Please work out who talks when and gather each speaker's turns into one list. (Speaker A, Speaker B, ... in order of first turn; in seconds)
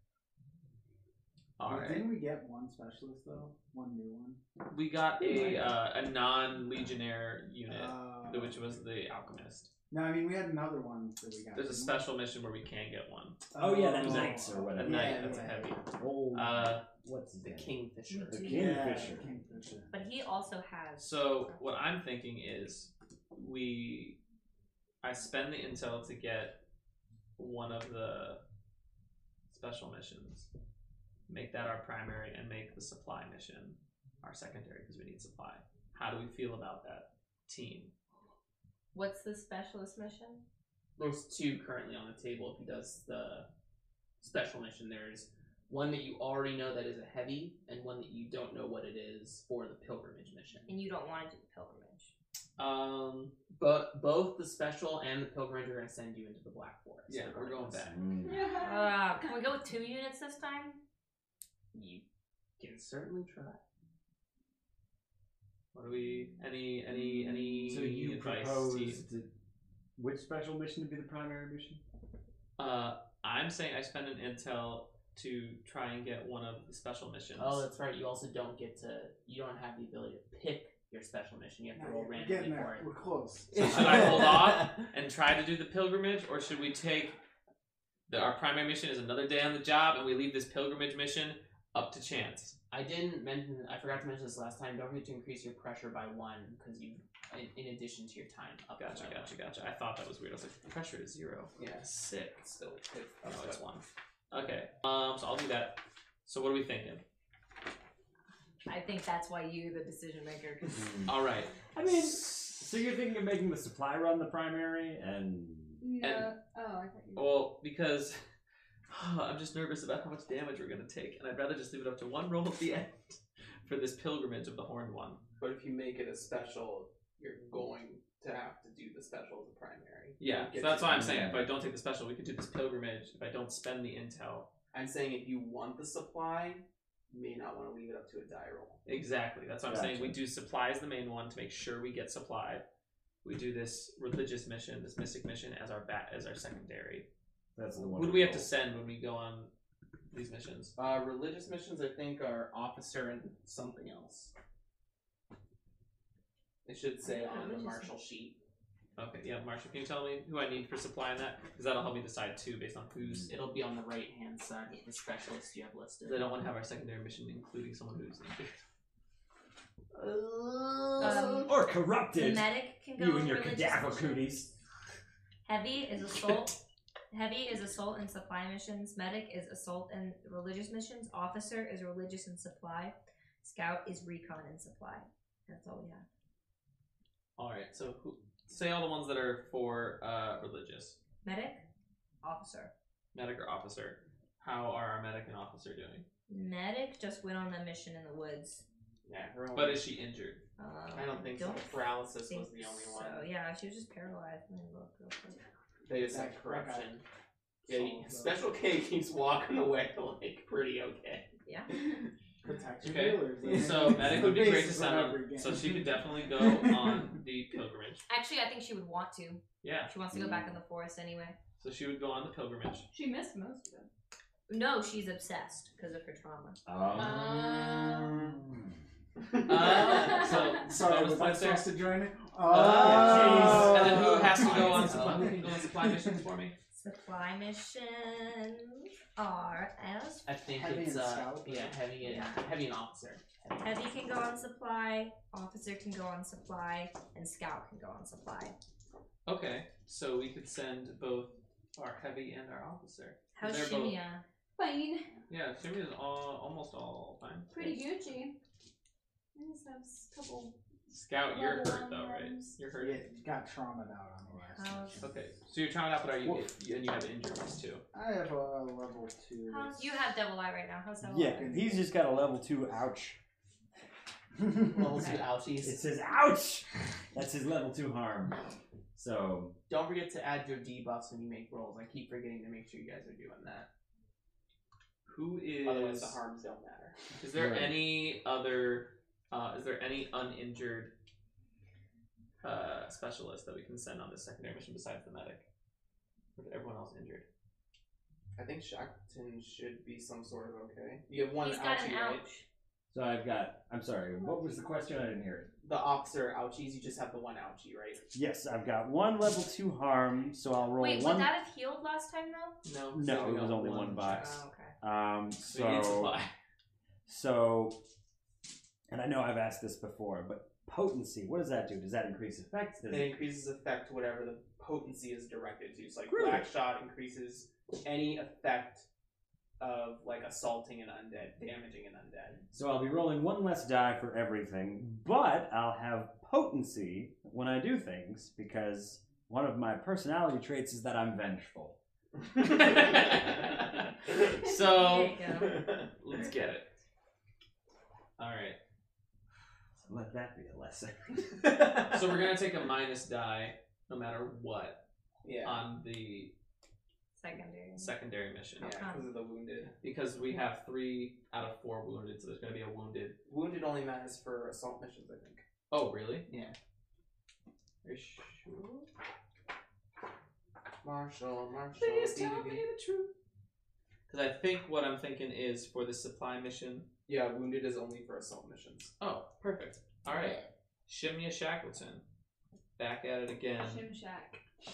Speaker A: 1.6-2.1, 4.7-9.7, 11.5-13.4, 14.0-16.8, 21.0-24.2, 25.0-26.6, 27.4-28.4, 29.5-30.5, 31.3-37.9, 52.6-53.4, 57.1-58.0, 65.7-69.0, 72.6-77.7, 83.6-87.2, 88.1-92.5, 98.8-102.3, 103.2-107.0, 111.0-112.1, 116.0-116.3, 117.2-118.2, 118.9-125.2, 130.2-134.5, 138.8-142.6, 143.2-147.1, 147.7-149.5, 150.1-150.8, 159.0-163.3, 166.0-168.6, 187.4-191.0, 193.1-196.1, 199.5-200.4, 212.8-218.1, 219.6-219.9, 221.6-222.9, 229.4-231.7, 232.5-236.5, 249.2-254.0, 255.3-257.7, 260.9-263.1, 265.0-267.8, 285.1-286.2, 287.2-290.9, 292.4-295.5, 296.4-297.2, 312.6-314.2, 315.4-316.3, 342.4-346.7, 348.2-348.6, 351.6-354.8, 355.4-356.3, 357.8-358.8, 359.8-363.2, 365.7-366.3, 367.8-368.9, 371.8-373.1, 374.1-376.9, 379.0-382.0, 382.8-383.9
Speaker B: 1.6-4.4, 7.7-8.7, 9.9-12.1, 13.5-15.8, 18.3-19.9, 81.7-84.3, 205.9-206.9, 207.6-208.5, 212.4-217.1, 230.1-236.0, 240.5-241.9, 262.8-265.2, 267.9-270.0, 271.2-272.0
Speaker C: 13.6-19.3, 57.9-58.6, 67.7-69.3, 70.0-71.8, 110.8-111.1, 111.7-115.8, 130.8-131.5, 139.7-140.2, 147.5-148.5, 171.0-174.5, 220.1-220.5, 226.7-227.6, 228.2-228.7, 232.7-235.1, 271.0-273.2, 275.6-278.4, 278.9-279.6, 287.3-287.8, 302.9-305.5, 308.1-311.3, 312.9-316.1, 317.1-317.8, 318.9-323.1, 326.1-326.5, 332.5-341.8, 349.9-351.2
Speaker D: 17.4-18.7, 41.0-43.5, 44.2-50.7, 53.5-57.9, 61.7-62.0, 62.6-63.6, 77.4-82.9, 83.5-84.8, 92.7-99.3, 101.6-103.6, 125.4-131.2, 134.7-138.8, 150.8-154.3, 156.6-158.4, 163.3-166.3, 199.0-199.8, 200.9-203.3, 205.8-207.0, 207.7-211.8, 213.5-213.9, 233.2-235.6, 240.2-243.7, 274.6-275.8, 279.7-283.7, 285.6-287.0, 298.4-302.3, 305.6-308.0, 322.9-328.8, 329.6-332.4, 355.2-355.7, 358.6-359.7, 363.3-365.4, 366.3-366.5, 370.8-372.7, 377.1-378.9
Speaker E: 19.9-21.6, 38.9-40.4, 50.7-52.1, 58.5-60.8, 108.7-111.0, 157.0-157.9, 170.9-171.5, 172.1-174.3, 175.4-176.6, 177.1-186.0, 191.2-191.6, 192.2-192.7, 196.3-198.6, 200.6-205.4, 218.1-221.3, 224.5-226.6, 236.7-240.3, 242.0-242.4, 243.6-248.5, 253.3-254.2, 264.5-265.1, 269.5-271.5, 301.4-302.4, 310.8-312.6, 314.0-314.7, 344.6-345.9, 357.1-357.9, 358.6-359.1, 380.1-380.5
Speaker F: 58.2-59.3, 115.8-117.4, 222.9-223.9, 226.9-228.2, 254.6-255.1, 257.5-258.4, 259.3-260.6, 261.3-262.6, 383.6-384.4